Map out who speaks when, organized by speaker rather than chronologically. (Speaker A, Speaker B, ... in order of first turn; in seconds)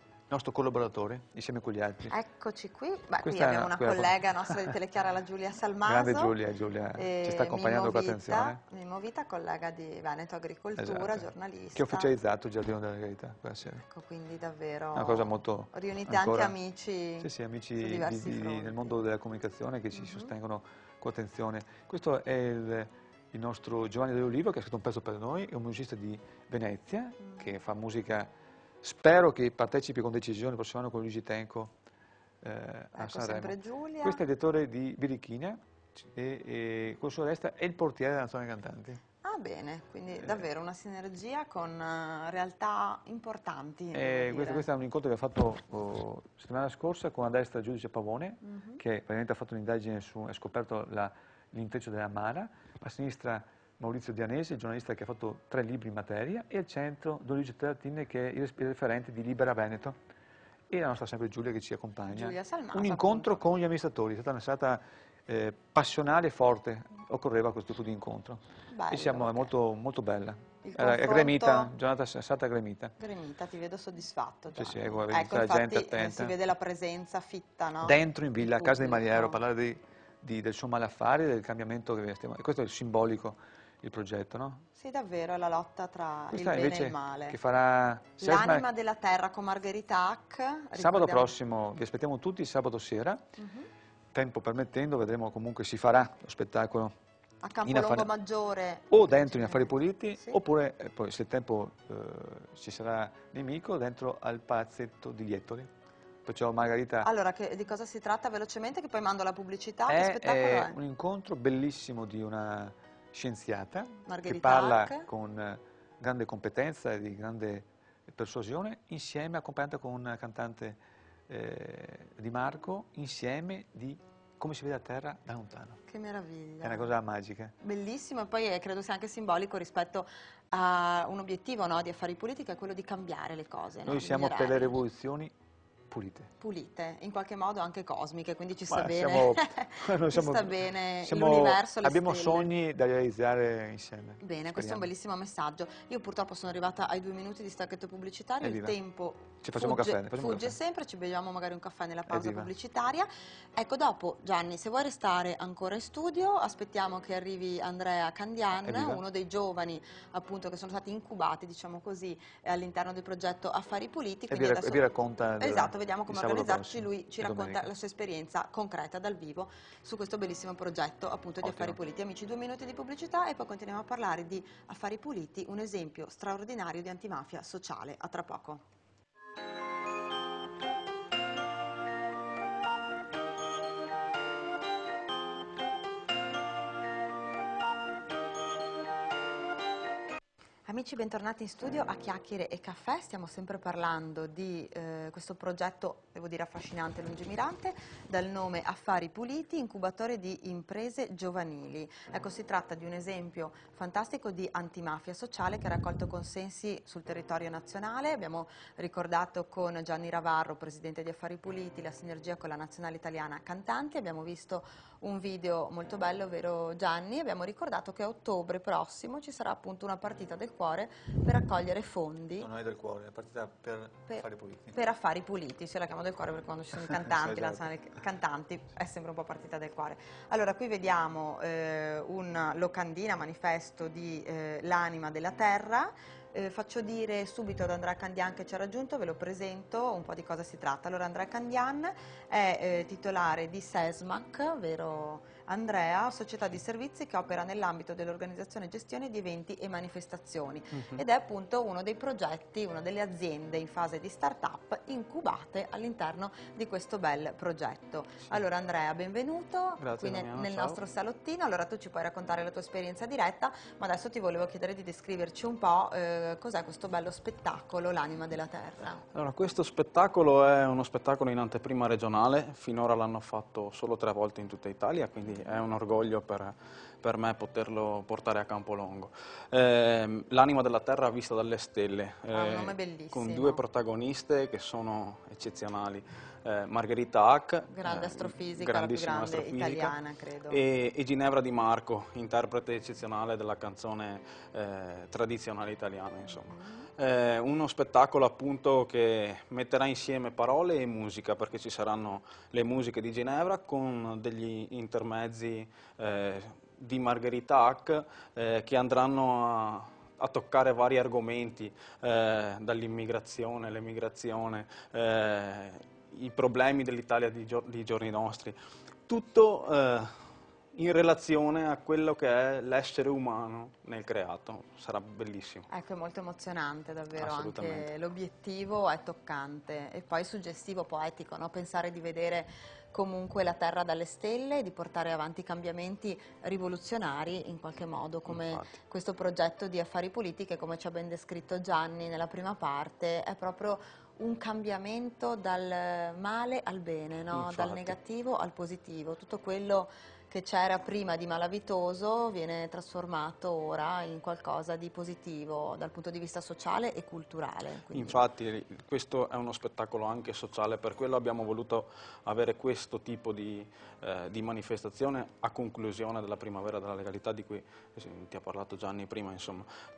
Speaker A: 0.3-2.1, 3.2-4.7, 5.8-8.6, 10.8-13.8, 14.9-16.5, 17.2-28.3, 28.8-31.7, 32.4-39.0, 40.1-40.5, 43.9-60.0, 60.7-72.9, 74.5-76.3, 77.8-84.6, 86.3-88.7, 90.7-93.2, 94.1-96.9, 97.6-98.1, 98.9-105.7, 106.2-107.1, 109.9-125.8, 126.6-127.5, 133.8-135.3, 135.9-136.3, 138.7-144.9, 148.4-148.8, 149.4-150.6, 152.1-152.5, 158.5-159.0, 164.3-167.7, 171.4-171.8, 222.4-224.8, 226.9-227.6
Speaker B: 2.1-6.3, 7.0-12.1, 13.9-18.9, 19.9-20.3, 27.2-27.5, 32.9-34.2, 39.2-44.6, 48.4-48.8, 62.1-63.4, 68.7-69.5, 70.6-71.7, 73.0-79.4, 84.8-87.4, 88.2-91.3, 93.4-93.7, 97.4-100.4, 107.0-110.8, 114.1-115.1, 125.9-126.9, 127.6-134.8, 136.4-142.5, 144.2-164.8, 165.4-178.6, 190.7-222.5, 224.1-269.0, 282.3-283.6, 287.7-290.6, 296.3-296.8, 325.7-358.2
Speaker C: 250.7-251.0, 259.8-260.8, 269.1-289.9, 290.5-320.1, 320.7-325.6, 327.1-327.9, 338.2-338.8, 347.3-348.0, 357.9-369.7